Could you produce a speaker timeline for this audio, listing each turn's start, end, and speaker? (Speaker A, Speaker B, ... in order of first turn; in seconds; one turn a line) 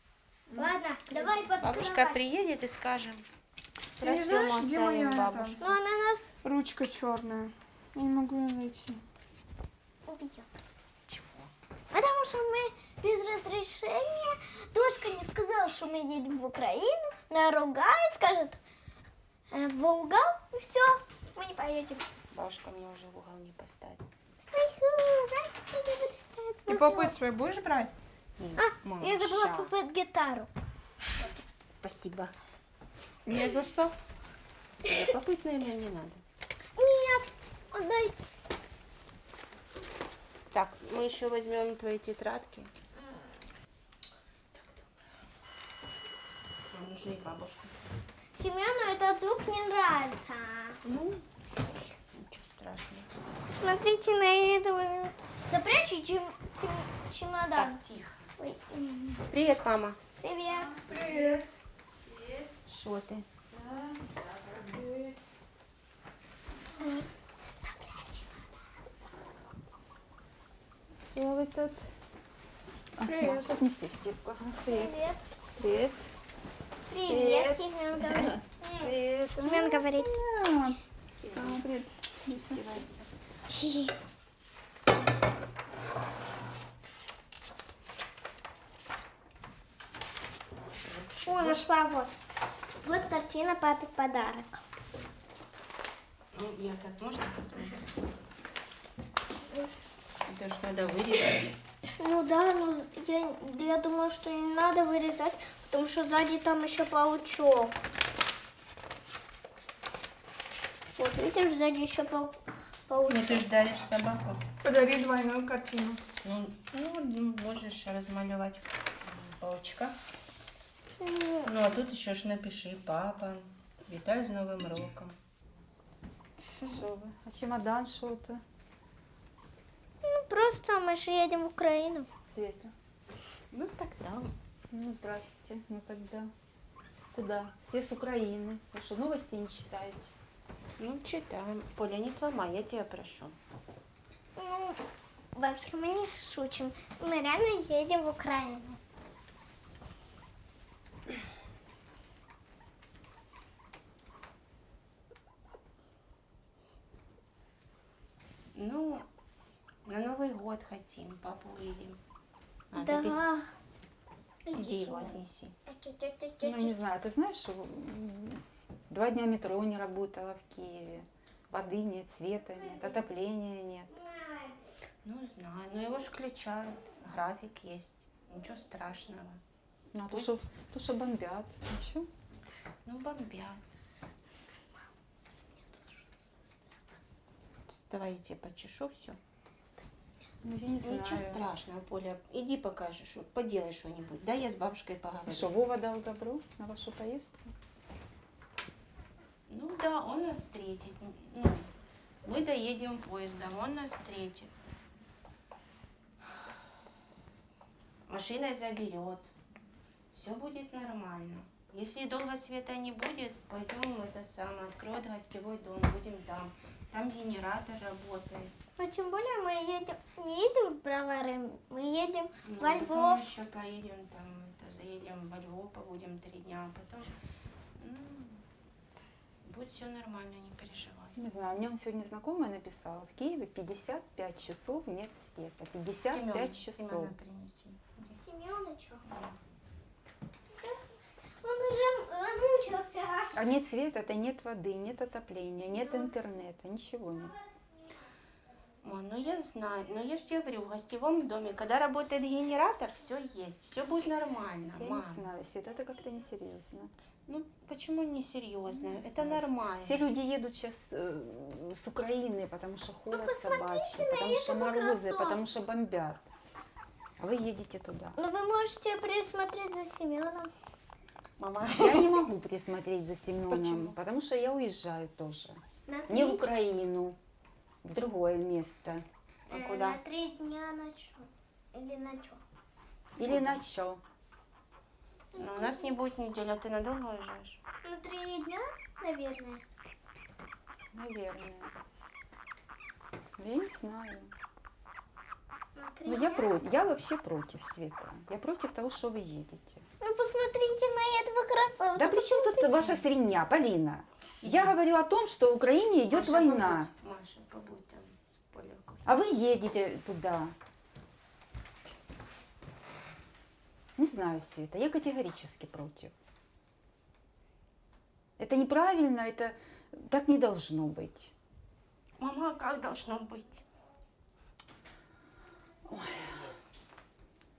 Speaker A: 0.5-1.2
Speaker B: 0.5-2.2
Speaker C: 1.6-3.2
Speaker A: 4.0-5.6
Speaker C: 4.0-5.7
Speaker B: 5.6-6.3
Speaker A: 6.4-9.0
Speaker B: 10.1-10.5
Speaker C: 11.1-11.5
Speaker B: 11.9-18.6
Speaker B: 19.5-22.1
Speaker C: 22.3-24.0
Speaker B: 24.5-27.2
Speaker A: 26.7-27.9
Speaker C: 28.4-29.7
Speaker B: 28.6-30.5
Speaker C: 31.8-32.3
Speaker A: 33.3-34.0
Speaker C: 34.8-36.2
Speaker B: 36.8-38.1
Speaker C: 40.5-42.7
Speaker C: 44.5-44.9
Speaker C: 46.7-47.7
Speaker B: 48.3-50.8
Speaker C: 50.9-53.1
Speaker B: 53.5-57.8
Speaker C: 57.5-58.3
Speaker B: 58.4-59.3
Speaker C: 59.3-60.0
Speaker B: 60.2-60.8
Speaker D: 60.5-61.4
Speaker A: 60.9-61.4
Speaker C: 62.7-63.3
Speaker D: 63.5-65.2
Speaker B: 66.8-68.5
Speaker D: 71.0-71.9
Speaker D: 73.0-74.9
Speaker A: 73.0-73.4
Speaker B: 74.7-75.2
Speaker D: 75.6-76.0
Speaker B: 76.9-80.2
Speaker D: 77.0-82.6
Speaker C: 81.2-81.6
Speaker C: 82.3-83.1
Speaker B: 83.5-83.9
Speaker C: 90.8-91.7
Speaker B: 91.2-92.1
Speaker B: 92.8-94.6
Speaker C: 96.3-97.8
Speaker C: 100.2-101.6
Speaker B: 102.0-107.8
Speaker B: 111.0-113.5
Speaker C: 113.1-114.5
Speaker A: 114.6-116.0
Speaker C: 116.2-120.0
Speaker B: 121.0-121.5
Speaker C: 121.4-125.2
Speaker D: 126.6-128.4
Speaker B: 130.0-132.1
Speaker D: 132.3-132.7
Speaker C: 133.5-134.3
Speaker D: 134.7-136.3
Speaker D: 137.1-140.1
Speaker C: 140.8-143.4
Speaker B: 144.4-144.8
Speaker B: 145.3-148.8
Speaker C: 158.6-159.1
Speaker C: 159.8-162.0
Speaker C: 162.7-163.2
Speaker B: 162.8-163.5
Speaker B: 164.5-166.8
Speaker C: 164.5-165.6
Speaker D: 166.4-173.9
Speaker B: 174.0-174.5
Speaker C: 175.0-179.4
Speaker D: 179.9-182.1
Speaker C: 182.9-183.6
Speaker B: 185.7-186.5
Speaker C: 187.7-189.2
Speaker D: 190.4-191.4
Speaker C: 190.8-195.5
Speaker D: 195.3-197.5
Speaker C: 199.5-201.7
Speaker C: 202.2-204.5
Speaker C: 208.1-209.3
Speaker C: 210.1-218.6
Speaker B: 218.8-223.3
Speaker C: 222.5-227.1
Speaker C: 227.8-228.4
Speaker C: 229.4-231.2
Speaker D: 231.2-237.2
Speaker C: 236.0-238.2
Speaker B: 238.2-239.0
Speaker C: 239.1-239.4
Speaker B: 240.5-240.8
Speaker B: 241.4-243.4
Speaker D: 243.3-247.3
Speaker B: 245.7-246.1
Speaker C: 248.8-255.2
Speaker D: 254.7-256.9
Speaker C: 257.3-260.0
Speaker D: 258.7-266.2
Speaker B: 263.1-265.4
Speaker D: 267.2-268.2
Speaker B: 268.2-270.5
Speaker C: 271.4-272.2
Speaker D: 271.7-277.2
Speaker C: 273.5-274.0
Speaker B: 275.9-276.4
Speaker D: 277.8-279.0
Speaker C: 279.5-280.0
Speaker B: 279.5-282.4
Speaker C: 283.2-283.7
Speaker D: 283.2-284.0
Speaker B: 285.3-286.0
Speaker C: 285.4-287.6
Speaker B: 287.8-289.6
Speaker D: 290.9-291.7
Speaker D: 293.4-294.3
Speaker B: 295.8-296.5
Speaker D: 296.1-299.9
Speaker B: 300.0-302.8
Speaker D: 302.0-306.9
Speaker C: 304.4-304.7
Speaker C: 306.1-309.0
Speaker D: 309.1-310.5
Speaker D: 314.0-316.1
Speaker D: 318.4-321.3
Speaker C: 322.2-323.6
Speaker D: 325.9-326.6